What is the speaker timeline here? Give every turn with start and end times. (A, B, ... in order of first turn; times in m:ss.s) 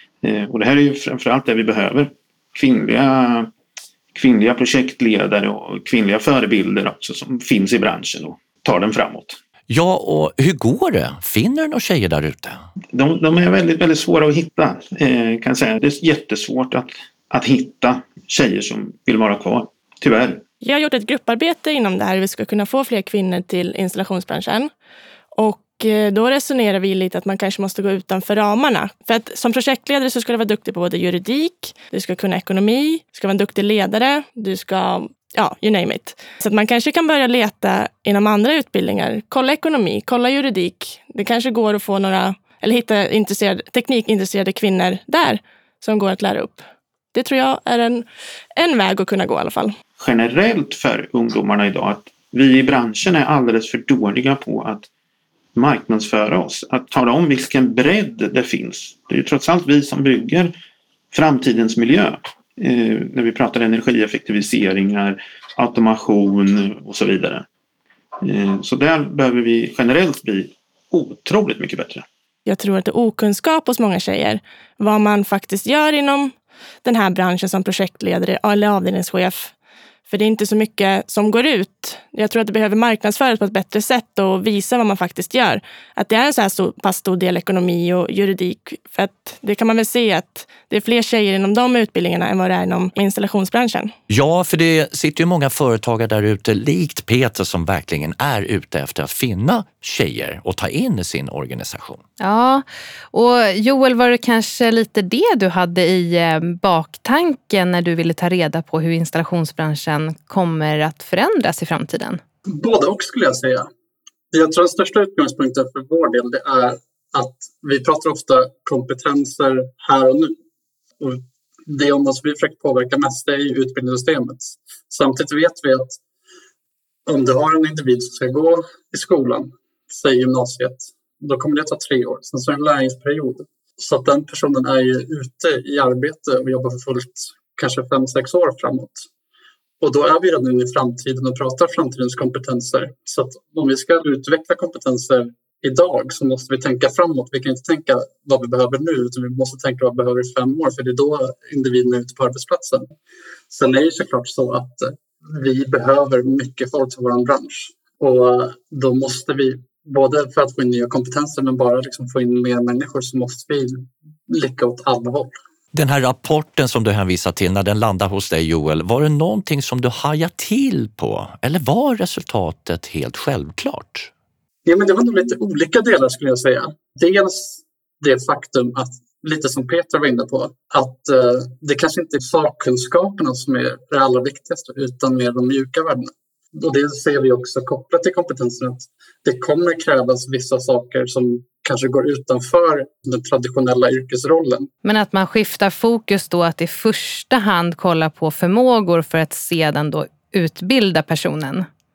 0:00.2-0:03.5 A
0:04.1-0:09.4 A
0:09.7-0:12.6 B
0:12.9-0:20.4 A
0:20.6-0:24.7 C
0:25.3-0:49.7 C
0:50.0-0:54.9 A
0:55.5-1:00.5 A
1:01.1-1:07.4 A
1:08.2-1:12.0 A
1:12.4-1:19.5 C
1:20.1-1:33.9 C
1:34.1-1:42.0 B
1:42.2-1:52.2 D
1:52.5-1:53.7 E
1:54.3-2:00.3 E
2:01.0-2:06.0 E
2:07.0-2:19.0 E
2:19.8-2:32.9 E
2:33.5-2:45.4 E
2:45.7-2:54.1 B
2:54.6-3:14.7 E
3:14.8-3:21.7 D